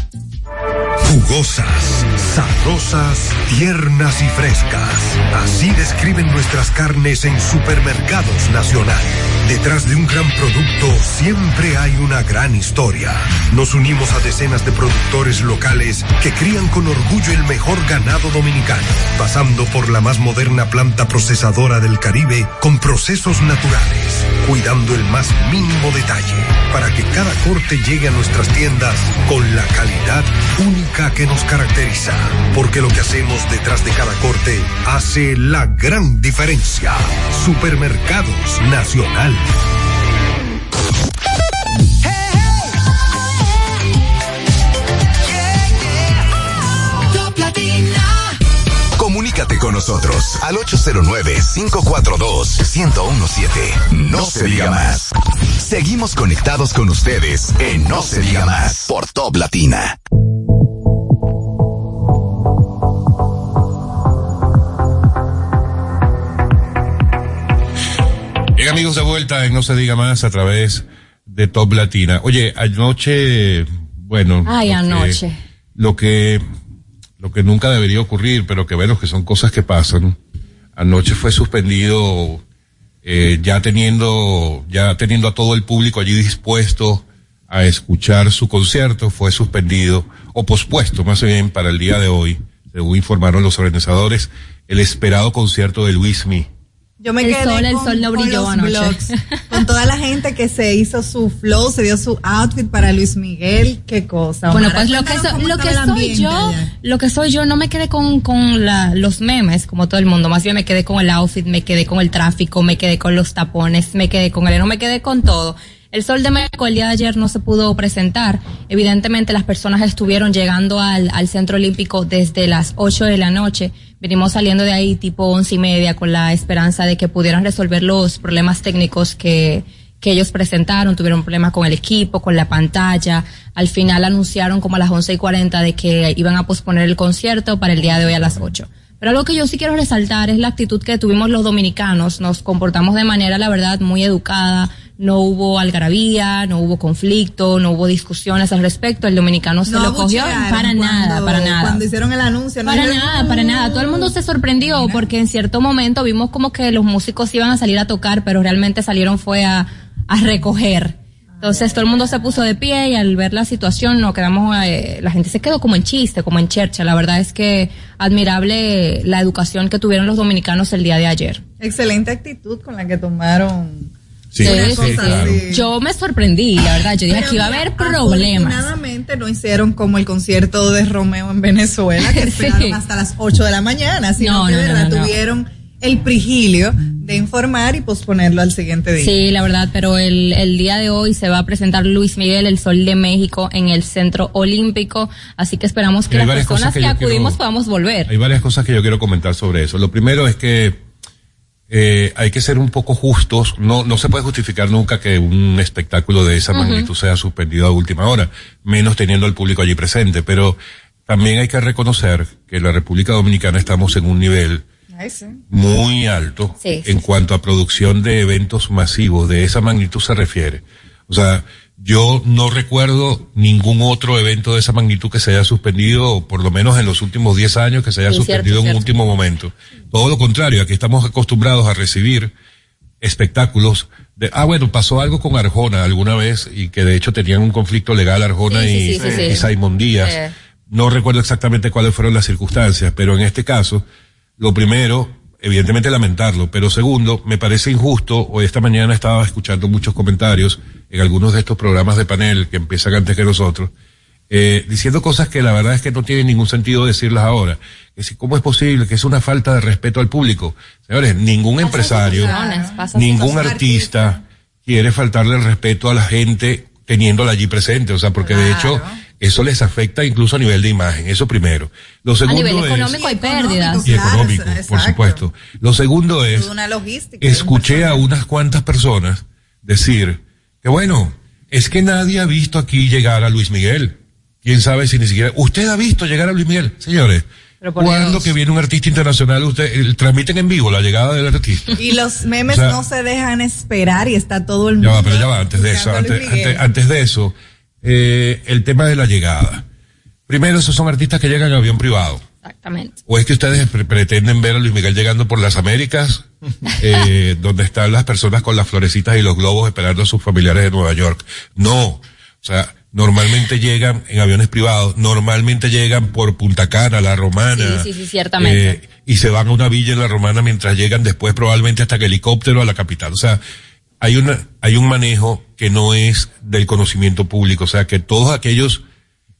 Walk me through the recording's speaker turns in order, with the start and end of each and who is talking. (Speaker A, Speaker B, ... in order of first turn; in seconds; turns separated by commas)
Speaker A: 1.0-39.5, Speaker B: 49.0-60.0, Speaker C: 68.5-75.2, Speaker D: 74.5-75.4, Speaker C: 75.8-76.4, Speaker C: 77.2-80.2, Speaker C: 80.8-82.4, Speaker C: 83.0-96.5, Speaker E: 97.0-106.7, Speaker D: 97.2-99.6, Speaker D: 104.5-151.8, Speaker E: 149.6-155.1, Speaker D: 152.7-171.4, Speaker E: 161.4-162.4, Speaker E: 171.6-175.7, Speaker C: 174.3-175.4, Speaker D: 174.4-178.7, Speaker E: 176.9-189.2, Speaker D: 182.0-182.8, Speaker D: 184.2-185.1, Speaker D: 189.0-198.1, Speaker C: 196.1-197.4, Speaker C: 198.1-200.8, Speaker C: 201.7-214.6, Speaker D: 206.5-206.9, Speaker E: 214.9-215.4, Speaker C: 215.5-232.3, Speaker D: 216.6-216.9, Speaker D: 228.1-229.0, Speaker C: 233.0-243.8, Speaker D: 238.5-240.3, Speaker C: 244.4-253.7, Speaker C: 254.3-262.4, Speaker D: 261.6-263.5, Speaker E: 261.7-264.2, Speaker C: 262.9-273.0, Speaker E: 268.2-269.0, Speaker D: 272.2-273.9, Speaker E: 272.8-275.2, Speaker C: 273.8-276.5, Speaker E: 276.3-278.1, Speaker C: 277.2-287.2, Speaker D: 287.6-288.3, Speaker C: 287.8-291.8, Speaker E: 291.8-296.6, Speaker C: 292.5-292.8, Speaker C: 294.8-299.6, Speaker C: 300.3-302.2, Speaker D: 302.4-302.9, Speaker C: 303.1-323.4, Speaker D: 317.5-318.8, Speaker C: 324.0-328.8